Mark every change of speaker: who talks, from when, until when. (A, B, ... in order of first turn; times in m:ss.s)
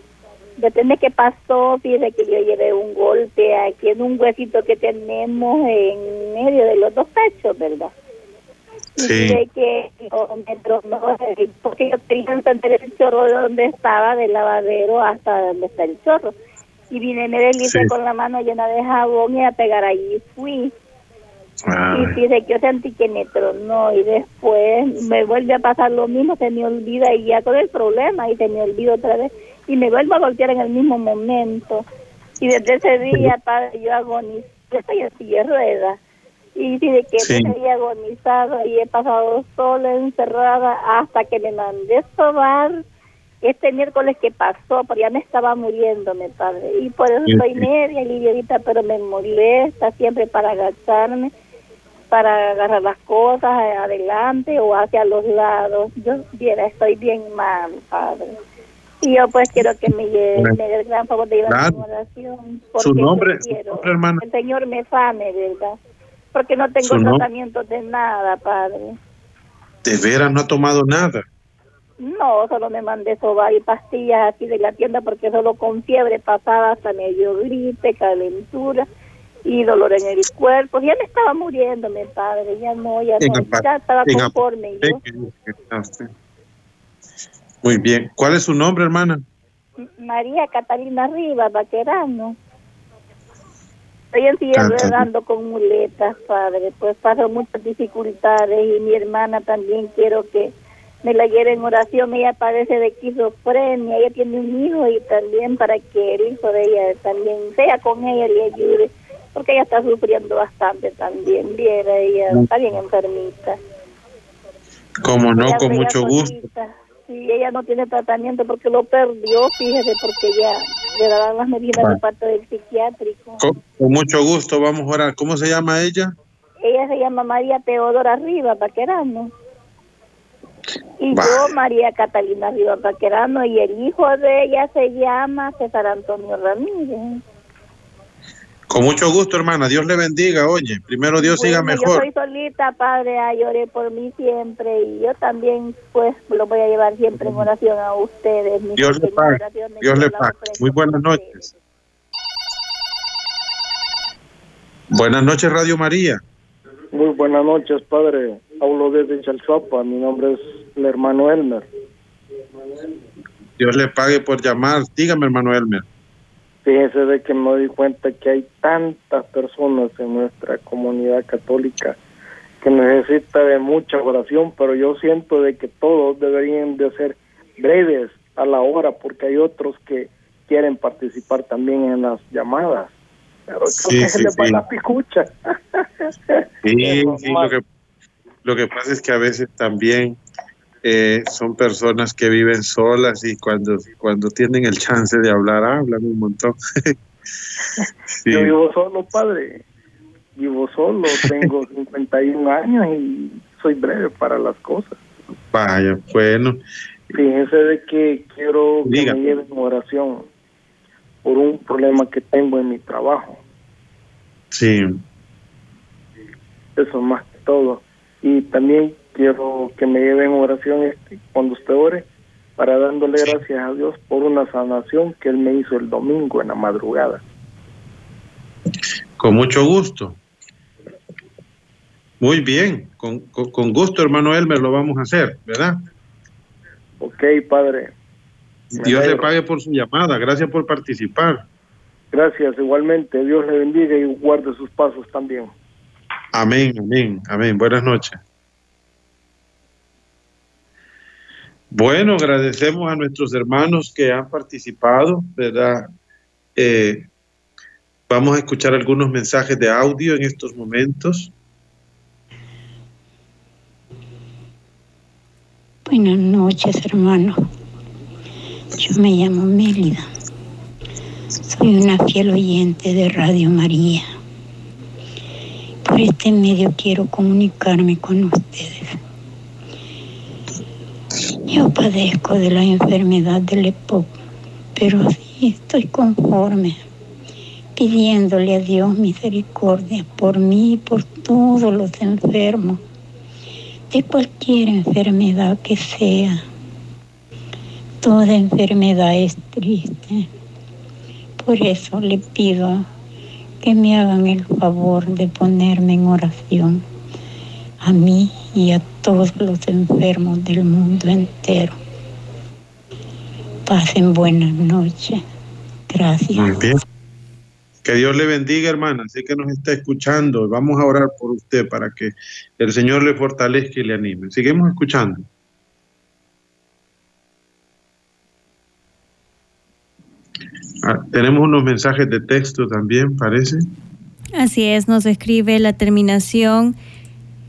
0:00.6-0:07.9 A
0:09.0-0:16.4 A
0:09.0-0:09.4 B
0:16.9-0:20.7 A
0:17.7-0:17.9 B
0:21.7-0:22.2 B
0:21.9-0:31.8 A
0:32.4-0:36.0 A
0:36.6-0:42.8 A
0:37.2-0:37.5 B
0:43.4-0:51.3 A
0:47.3-0:47.7 B
0:52.1-0:58.3 A
0:59.0-1:05.8 A
1:01.5-1:01.8 B
1:02.8-1:04.2 B
1:06.3-1:09.0 A
1:06.8-1:07.2 B
1:09.8-1:11.3 B
1:12.0-1:18.8 A
1:19.4-1:25.0 A
1:23.2-1:26.1 B
1:27.6-1:29.2 B
1:29.8-1:32.4 A
1:34.1-1:40.5 A
1:34.5-1:35.1 B
1:41.0-1:53.6 A
1:55.0-1:56.4 B
1:55.4-2:03.5 A
2:01.7-2:02.0 B
2:03.4-2:06.1 B
2:06.6-2:09.3 A
2:11.0-2:17.2 A
2:11.1-2:11.5 B
2:18.7-2:22.1 B
2:21.2-2:31.4 A
2:27.2-2:27.5 B
2:28.8-2:31.5 B
2:34.9-2:36.2 B
2:36.9-2:41.7 C
2:43.6-2:45.9 B
2:46.6-2:52.0 C
2:52.6-3:02.9 C
3:03.5-3:07.5 C
3:03.8-3:04.6 B
3:06.6-3:07.6 B
3:08.4-3:10.2 B
3:10.8-3:17.0 B
3:18.2-3:18.5 B
3:18.3-3:19.7 C
3:20.4-3:25.0 C
3:25.5-3:26.6 B
3:27.1-3:30.3 C
3:28.8-3:29.2 B
3:31.2-3:33.4 C
3:34.5-3:35.0 B
3:36.8-3:47.2 C
3:49.2-3:50.2 B
3:52.2-3:55.8 B
3:57.0-3:57.9 C
3:58.8-4:01.4 B
3:58.8-3:59.3 C
4:02.1-4:05.5 C
4:06.3-4:08.2 B
4:11.7-4:15.9 B
4:16.6-4:17.1 B
4:18.1-4:21.3 B
4:25.9-4:27.4 D
4:28.8-4:30.1 D
4:31.5-4:34.1 D
4:35.8-4:39.0 D
4:41.5-4:44.1 D
4:44.8-4:46.8 D
4:47.8-4:52.8 D
4:53.9-4:56.4 D
4:58.0-5:00.3 D
5:01.4-5:02.9 D
5:03.6-5:06.8 D
5:07.8-5:11.8 D
5:13.7-5:15.2 D
5:15.9-5:16.6 D
5:16.4-5:16.8 B
5:17.8-5:25.3 B
5:30.8-5:33.6 B
5:34.4-5:36.8 E